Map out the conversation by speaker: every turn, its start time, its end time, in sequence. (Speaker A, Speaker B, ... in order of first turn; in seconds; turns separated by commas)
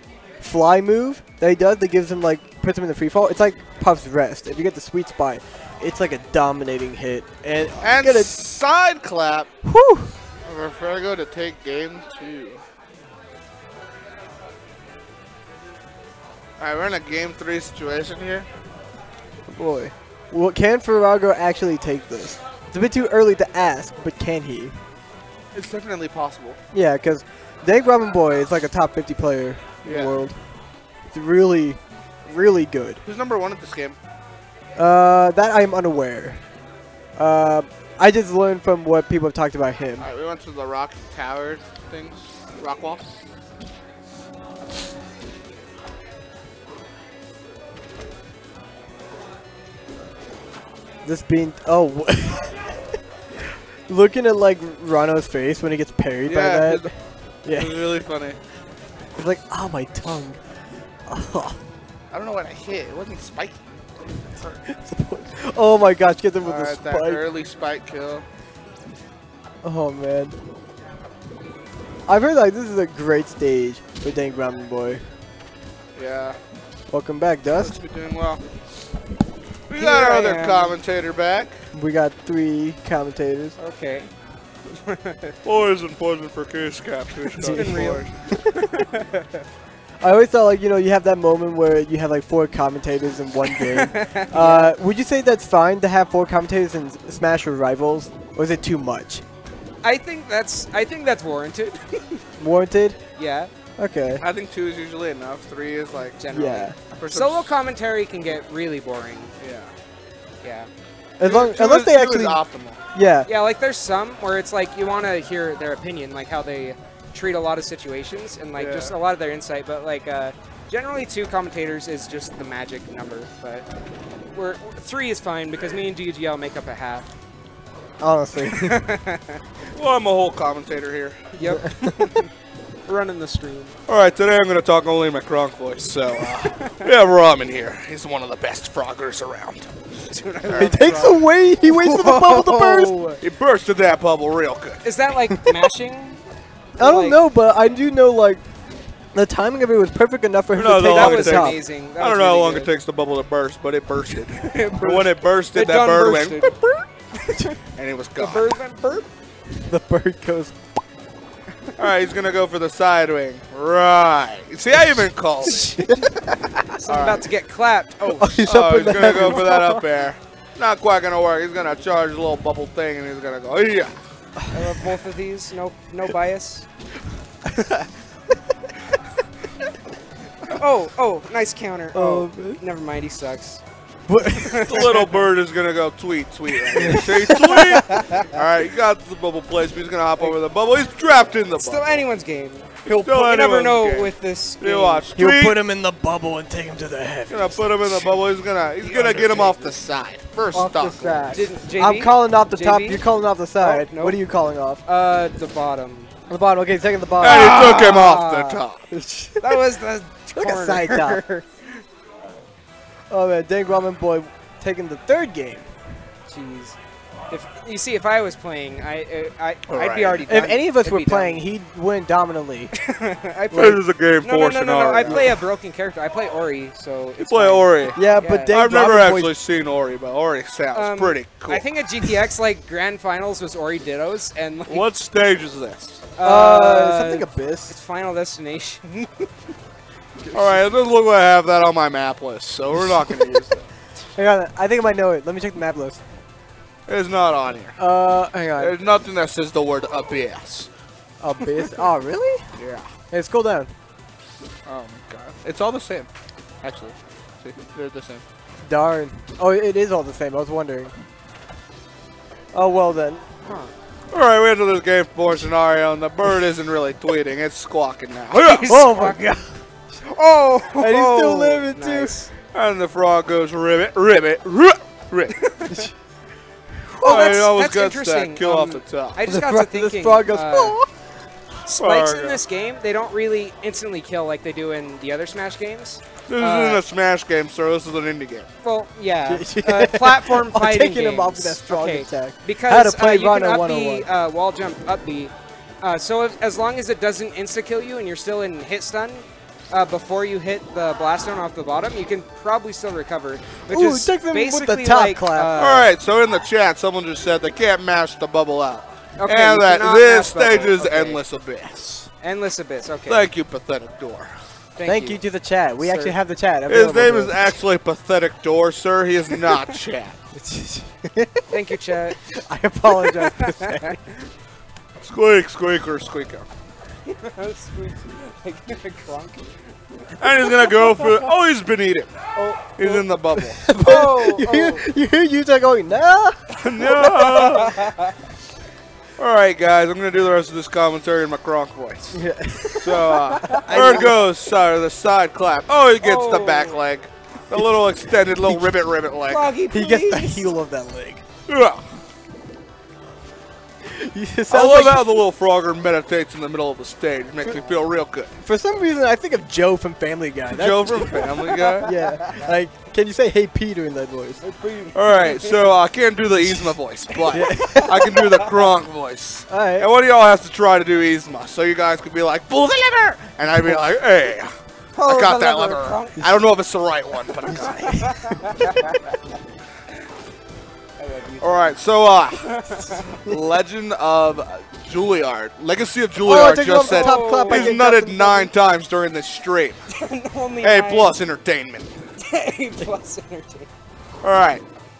Speaker A: 0.4-8.3, Speaker B: 7.8-9.5, Speaker A: 9.6-10.1, Speaker B: 10.4-12.6, Speaker B: 16.6-18.5, Speaker A: 19.5-24.8, Speaker B: 25.5-26.6, Speaker A: 26.7-30.4, Speaker B: 29.8-30.2, Speaker A: 31.1-33.0, Speaker B: 33.0-34.0, Speaker A: 34.8-36.4, Speaker A: 37.2-40.0, Speaker B: 40.0-43.1, Speaker A: 51.0-52.8, Speaker A: 53.5-56.9, Speaker B: 56.2-56.9, Speaker A: 57.4-57.8, Speaker B: 57.5-58.4, Speaker A: 59.2-60.4, Speaker A: 61.1-61.6, Speaker B: 62.1-63.6, Speaker A: 64.6-67.2, Speaker B: 66.4-68.2, Speaker A: 69.6-70.3, Speaker A: 72.1-75.0, Speaker B: 76.0-76.4, Speaker A: 76.9-77.7, Speaker B: 77.5-78.4, Speaker B: 79.7-81.6, Speaker C: 79.7-80.8, Speaker A: 81.7-83.5, Speaker C: 83.6-84.1, Speaker C: 84.7-85.4, Speaker B: 85.4-88.1, Speaker A: 87.4-88.0, Speaker C: 87.4-89.4, Speaker A: 90.0-99.2, Speaker C: 93.6-94.7, Speaker C: 99.8-102.2, Speaker A: 102.4-103.0, Speaker C: 103.2-103.5, Speaker A: 103.8-104.2, Speaker B: 104.2-106.2, Speaker C: 106.2-109.3, Speaker A: 106.3-106.8, Speaker B: 107.0-107.5, Speaker B: 109.4-109.7, Speaker C: 110.4-110.7, Speaker A: 111.2-112.4, Speaker B: 111.2-112.8, Speaker A: 112.9-113.3, Speaker C: 113.2-123.7, Speaker B: 118.5-118.9, Speaker C: 124.3-127.1, Speaker A: 128.0-128.9, Speaker C: 128.5-129.4, Speaker B: 129.7-131.2, Speaker C: 131.3-132.3, Speaker A: 131.4-131.7, Speaker C: 132.8-133.8, Speaker B: 133.9-139.7, Speaker C: 136.5-136.8, Speaker C: 140.1-143.2, Speaker B: 140.5-141.0, Speaker A: 140.6-143.0, Speaker B: 143.2-144.8, Speaker C: 144.8-146.2, Speaker C: 146.8-147.2, Speaker A: 146.8-148.4, Speaker A: 149.1-151.6, Speaker B: 150.5-156.5, Speaker C: 150.9-152.7, Speaker C: 154.3-157.6, Speaker B: 157.8-158.5, Speaker C: 158.2-159.1, Speaker A: 159.6-160.6, Speaker B: 161.8-165.7, Speaker C: 165.4-165.9, Speaker C: 166.8-168.8, Speaker B: 166.9-167.3, Speaker A: 168.1-169.8, Speaker B: 168.4-173.9, Speaker A: 174.4-174.7, Speaker C: 174.5-176.7, Speaker C: 180.5-183.6, Speaker A: 181.9-182.6, Speaker A: 184.1-185.0, Speaker C: 184.2-185.1, Speaker B: 184.7-192.0, Speaker A: 186.7-187.8, Speaker C: 186.8-188.3, Speaker C: 191.5-195.1, Speaker B: 192.8-195.6, Speaker A: 195.2-198.1, Speaker B: 197.3-201.4, Speaker C: 198.8-199.8, Speaker A: 200.5-204.8, Speaker C: 201.3-203.0, Speaker C: 203.6-204.2, Speaker C: 204.8-206.1, Speaker A: 206.3-207.9, Speaker B: 207.2-208.8, Speaker C: 207.2-208.6, Speaker A: 208.9-209.6, Speaker C: 209.4-211.5, Speaker A: 210.3-211.2, Speaker A: 213.1-215.7, Speaker C: 216.3-216.8, Speaker C: 217.3-221.4, Speaker B: 219.7-220.3, Speaker A: 220.2-222.7, Speaker C: 222.8-228.6, Speaker B: 223.5-225.4, Speaker B: 227.2-232.1, Speaker A: 227.9-229.3, Speaker C: 230.7-234.9, Speaker B: 234.7-236.0, Speaker C: 236.2-239.3, Speaker A: 236.2-237.7, Speaker A: 240.2-240.6, Speaker B: 240.3-243.7, Speaker A: 244.2-246.0, Speaker B: 246.9-247.8, Speaker A: 247.8-248.8, Speaker B: 248.6-250.7, Speaker A: 251.2-252.4, Speaker B: 252.6-252.9, Speaker A: 253.1-253.7, Speaker B: 254.7-256.1, Speaker B: 256.6-258.2, Speaker A: 258.6-260.9, Speaker A: 262.5-263.2, Speaker C: 263.4-263.7, Speaker B: 264.1-268.8, Speaker C: 268.4-269.3, Speaker A: 268.7-269.6, Speaker C: 270.0-272.3, Speaker A: 270.8-272.1, Speaker B: 272.5-275.3, Speaker C: 275.4-275.9, Speaker A: 276.9-277.4, Speaker B: 277.0-279.2, Speaker C: 277.0-280.8, Speaker A: 279.2-280.9, Speaker C: 281.6-286.8, Speaker B: 281.8-282.4, Speaker B: 286.3-288.5, Speaker C: 288.6-305.9, Speaker A: 289.3-294.1, Speaker A: 303.7-305.5, Speaker B: 305.6-312.1, Speaker C: 309.2-311.2, Speaker C: 312.2-313.3, Speaker B: 313.1-314.3, Speaker C: 314.8-315.2, Speaker A: 314.9-317.5, Speaker C: 315.8-316.1, Speaker B: 316.7-320.2, Speaker A: 320.3-321.4, Speaker C: 321.5-322.3, Speaker A: 322.3-324.0, Speaker C: 322.8-323.9, Speaker B: 325.0-326.5, Speaker C: 327.0-329.4, Speaker B: 330.2-332.1, Speaker C: 330.4-331.2, Speaker C: 332.4-333.1, Speaker B: 332.8-333.6, Speaker A: 333.6-337.2, Speaker C: 333.6-334.8, Speaker B: 336.5-337.8, Speaker C: 337.2-338.1, Speaker B: 339.2-342.2, Speaker A: 342.1-344.2, Speaker B: 342.8-349.5, Speaker C: 343.4-344.0, Speaker C: 346.0-346.8, Speaker A: 347.5-348.7, Speaker C: 349.3-350.5, Speaker A: 349.7-351.2, Speaker B: 351.5-351.9, Speaker A: 353.8-355.2, Speaker B: 354.5-358.3, Speaker C: 357.4-357.8, Speaker A: 358.4-361.2, Speaker B: 360.5-361.9, Speaker C: 361.2-362.4, Speaker A: 361.8-364.4, Speaker C: 364.4-365.7, Speaker B: 364.9-378.0, Speaker A: 367.3-368.0, Speaker C: 367.4-368.5, Speaker A: 369.5-369.9, Speaker C: 374.9-376.3, Speaker A: 377.5-378.5, Speaker C: 377.8-379.0, Speaker C: 381.0-381.7, Speaker B: 381.4-382.5, Speaker C: 382.3-383.2, Speaker B: 383.1-389.8, Speaker A: 386.2-388.5, Speaker C: 386.8-387.8, Speaker C: 389.9-391.1, Speaker B: 390.6-391.9, Speaker C: 392.2-393.7, Speaker B: 394.2-394.6